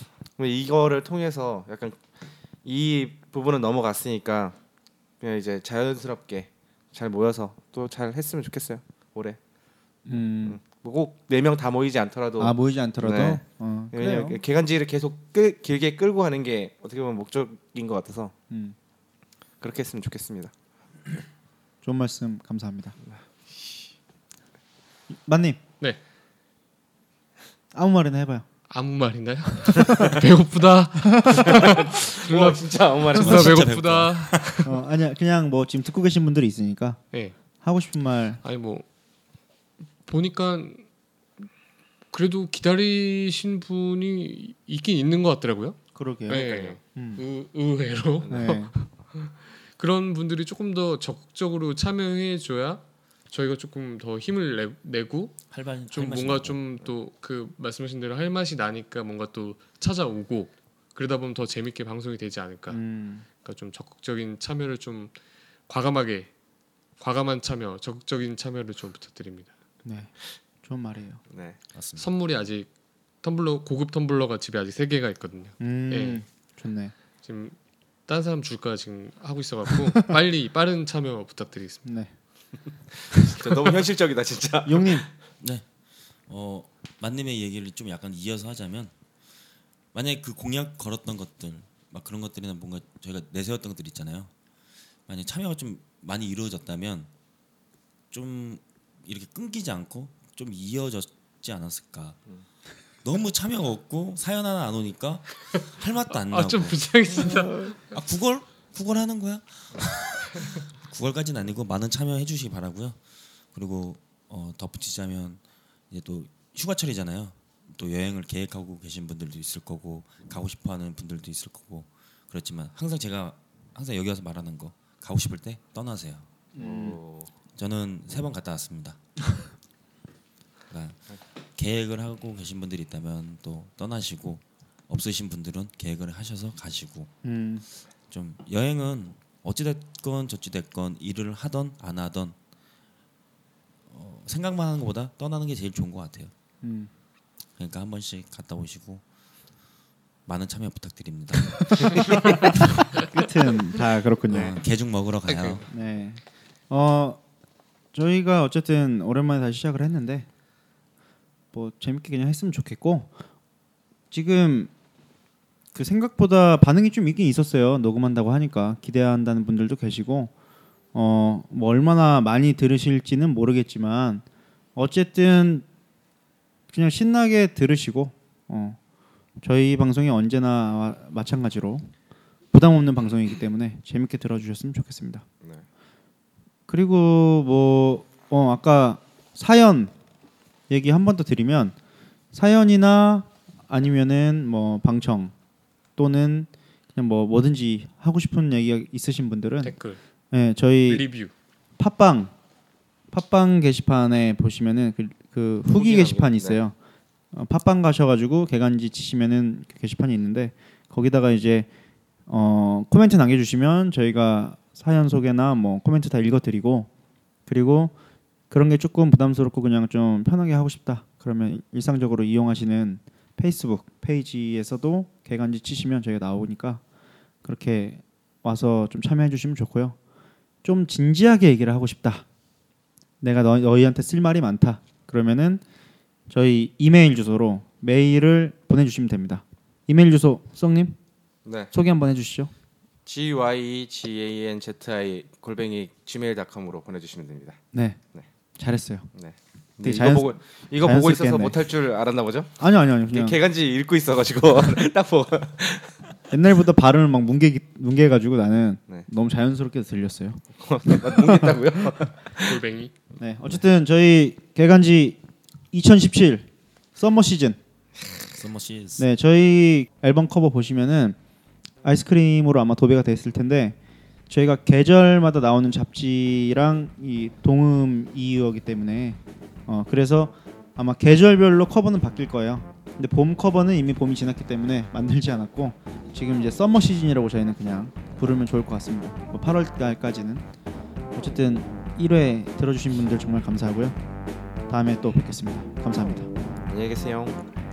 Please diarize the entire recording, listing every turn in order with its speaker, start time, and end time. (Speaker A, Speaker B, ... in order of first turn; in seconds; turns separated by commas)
Speaker A: 0.4-2.0, Speaker A: 2.6-4.5, Speaker A: 5.2-9.4, Speaker B: 10.1-10.6, Speaker A: 10.4-18.3, Speaker B: 12.4-14.4, Speaker B: 18.5-18.7, Speaker A: 19.6-20.5, Speaker B: 21.8-22.9, Speaker A: 23.5-23.8, Speaker B: 25.2-25.6, Speaker B: 27.7-28.4, Speaker C: 28.7-34.7, Speaker B: 31.1-31.4, Speaker A: 31.4-33.6, Speaker D: 33.1-34.6, Speaker B: 34.6-37.0, Speaker B: 37.6-38.4, Speaker C: 38.4-38.9, Speaker C: 40.1-40.8, Speaker C: 42.1-45.8, Speaker B: 45.9-47.2, Speaker C: 46.3-55.4, Speaker A: 46.3-46.8, Speaker A: 48.2-48.5, Speaker B: 48.3-48.7, Speaker D: 55.5-56.6, Speaker C: 55.9-62.8, Speaker B: 62.7-63.2, Speaker C: 63.4-65.1, Speaker C: 65.7-66.3, Speaker C: 67.0-69.5, Speaker B: 69.8-70.1, Speaker B: 70.6-71.2, Speaker A: 71.3-71.6, Speaker D: 71.7-72.1, Speaker C: 72.0-72.7, Speaker C: 73.2-76.2, Speaker B: 75.6-76.9, Speaker C: 77.2-77.5, Speaker C: 78.1-81.8, Speaker B: 81.8-82.1, Speaker A: 83.2-85.1, Speaker B: 84.6-85.0, Speaker D: 86.3-88.9, Speaker D: 89.9-94.3, Speaker D: 95.1-97.1, Speaker D: 98.1-102.2, Speaker D: 103.0-113.0, Speaker C: 106.3-107.8, Speaker D: 113.5-115.4, Speaker D: 115.9-126.2, Speaker B: 126.5-127.0, Speaker A: 126.6-127.3, Speaker D: 127.5-129.0, Speaker D: 130.7-131.0, Speaker D: 131.6-137.1, Speaker B: 137.2-137.6, Speaker D: 138.1-142.3, Speaker D: 143.9-146.3, Speaker B: 146.6-146.9, Speaker D: 147.6-149.0, Speaker D: 150.2-152.8, Speaker B: 151.8-154.6, Speaker D: 154.3-155.7, Speaker C: 155.3-155.6, Speaker B: 155.7-157.2, Speaker B: 157.9-160.3, Speaker B: 161.5-163.1, Speaker B: 164.1-164.7, Speaker B: 165.7-170.3, Speaker B: 170.9-174.2, Speaker B: 174.8-175.6, Speaker B: 176.7-178.8, Speaker B: 179.4-181.9, Speaker B: 182.5-185.2, Speaker B: 186.7-189.9, Speaker B: 190.7-191.8, Speaker B: 192.3-195.3, Speaker B: 196.0-199.7, Speaker C: 199.6-200.0, Speaker B: 200.3-201.1, Speaker C: 200.9-201.3, Speaker B: 201.8-202.3, Speaker B: 203.1-206.7, Speaker A: 205.7-206.6, Speaker B: 207.3-211.7, Speaker B: 212.3-216.9, Speaker B: 217.5-217.9, Speaker B: 218.5-226.8, Speaker B: 227.4-229.9, Speaker B: 230.6-232.2, Speaker B: 233.2-235.6, Speaker B: 236.3-241.0, Speaker A: 241.4-241.7, Speaker B: 241.7-242.5, Speaker A: 243.1-247.6, Speaker B: 247.7-248.0, Speaker B: 248.6-249.1, Speaker A: 249.1-252.5, Speaker B: 249.8-251.5, Speaker B: 252.6-253.4, Speaker A: 253.1-255.9, Speaker B: 256.3-261.6, Speaker A: 260.6-262.6, Speaker C: 262.4-262.9, Speaker B: 263.2-265.2, Speaker B: 265.7-267.6, Speaker D: 268.1-269.1, Speaker B: 269.0-271.2, Speaker B: 271.8-273.8, Speaker B: 274.3-290.4, Speaker B: 291.1-293.9, Speaker B: 294.7-296.3, Speaker A: 296.7-297.4